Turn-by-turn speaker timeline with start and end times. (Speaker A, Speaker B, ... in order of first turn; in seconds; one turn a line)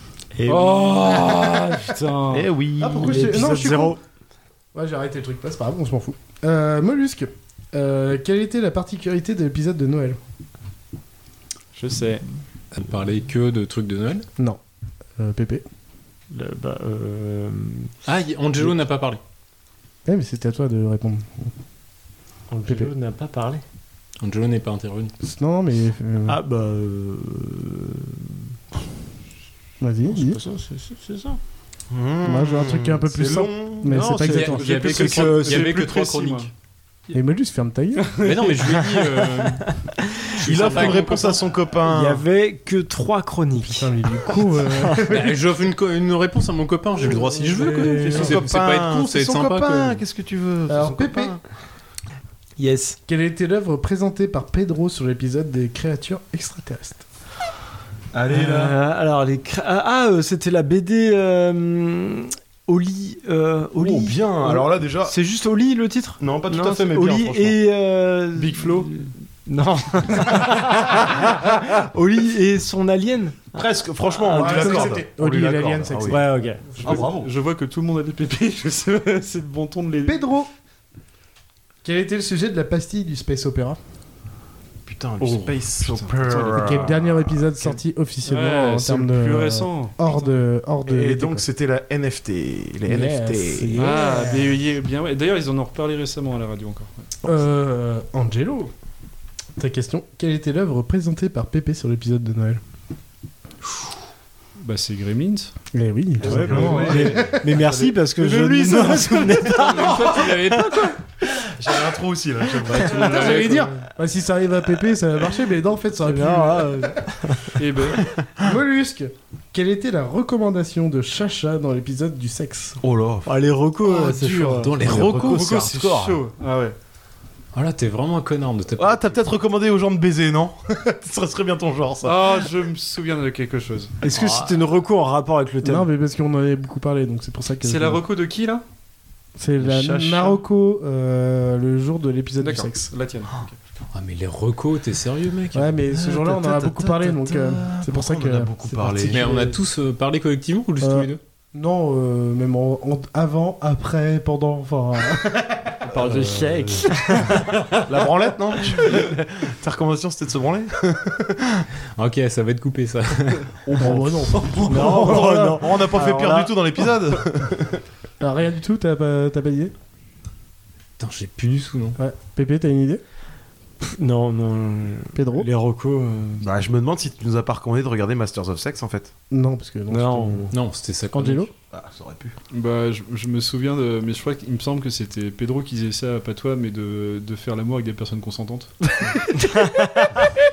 Speaker A: 0.3-1.7
Speaker B: 0.5-2.5
Speaker A: 2.3-4.0
Speaker C: 2.4-3.0
Speaker D: 2.8-4.0
Speaker D: 4.7-10.2
Speaker B: 11.8-12.2
Speaker E: 12.7-14.3
Speaker D: 15.2-15.6
Speaker A: 16.3-17.9
Speaker E: 18.1-19.2
Speaker D: 20.1-21.5
Speaker A: 22.5-23.6
Speaker E: 24.2-25.1
Speaker D: 25.2-26.4
Speaker A: 26.3-28.4
Speaker D: 29.8-30.4
Speaker A: 30.0-31.4
Speaker C: 31.9-33.9
Speaker D: 32.2-34.6
Speaker A: 33.9-36.1
Speaker B: 34.2-36.5
Speaker E: 34.2-36.5
Speaker D: 37.1-38.1
Speaker E: 38.2-39.7
Speaker A: 38.6-41.0
Speaker E: 40.4-41.5
Speaker C: 40.4-42.2
Speaker A: 41.8-45.0
Speaker D: 43.6-45.4
Speaker E: 45.1-50.0
Speaker D: 47.0-48.4
Speaker C: 48.1-51.4
Speaker D: 50.7-51.4
Speaker A: 52.6-53.0
Speaker D: 53.1-57.0
Speaker C: 58.1-58.8
Speaker A: 58.3-73.6
Speaker C: 63.8-65.2
Speaker C: 66.2-67.6
Speaker B: 68.3-68.9
Speaker C: 73.5-76.2
Speaker A: 74.2-74.9
Speaker D: 74.3-76.4
Speaker A: 76.1-77.0
Speaker B: 76.8-80.2
Speaker C: 76.8-77.3
Speaker D: 80.0-80.5
Speaker D: 81.8-83.8
Speaker C: 84.9-87.5
Speaker B: 85.2-86.6
Speaker D: 86.6-91.5
Speaker B: 88.2-90.4
Speaker C: 90.8-93.9
Speaker D: 92.9-94.5
Speaker B: 93.8-97.1
Speaker D: 97.2-98.7
Speaker D: 99.6-102.6
Speaker B: 104.6-105.5
Speaker D: 105.7-107.4
Speaker A: 106.2-110.4
Speaker C: 106.3-107.9
Speaker B: 106.3-107.2
Speaker E: 108.2-111.0
Speaker C: 111.6-113.5
Speaker E: 112.8-113.7
Speaker D: 113.1-117.0
Speaker A: 116.0-117.6
Speaker B: 117.6-118.0
Speaker D: 118.4-122.8
Speaker C: 122.8-123.3
Speaker A: 123.3-125.2
Speaker E: 124.2-125.7
Speaker C: 124.7-126.2
Speaker B: 125.2-126.8
Speaker E: 127.5-129.2
Speaker C: 128.8-132.5
Speaker B: 132.0-133.9
Speaker A: 134.0-135.9
Speaker E: 134.1-134.6
Speaker D: 135.6-138.0
Speaker B: 137.6-138.6
Speaker D: 139.4-142.9
Speaker C: 139.6-140.4
Speaker B: 142.4-143.6
Speaker E: 143.9-145.8
Speaker D: 145.5-149.5
Speaker C: 145.9-149.5
Speaker E: 149.1-151.2
Speaker D: 150.8-155.7
Speaker A: 155.8-157.8
Speaker C: 156.0-156.9
Speaker C: 157.9-161.7
Speaker E: 162.0-163.9
Speaker D: 163.8-165.6
Speaker A: 163.8-166.6
Speaker C: 165.1-167.8
Speaker D: 168.2-169.7
Speaker E: 171.0-172.0
Speaker D: 172.0-173.0
Speaker A: 173.8-176.4
Speaker D: 175.2-175.5
Speaker C: 176.4-179.1
Speaker D: 179.3-180.5
Speaker A: 179.9-180.6
Speaker E: 180.5-181.5
Speaker D: 181.1-181.5
Speaker C: 181.7-182.3
Speaker B: 182.5-188.8
Speaker A: 189.4-190.3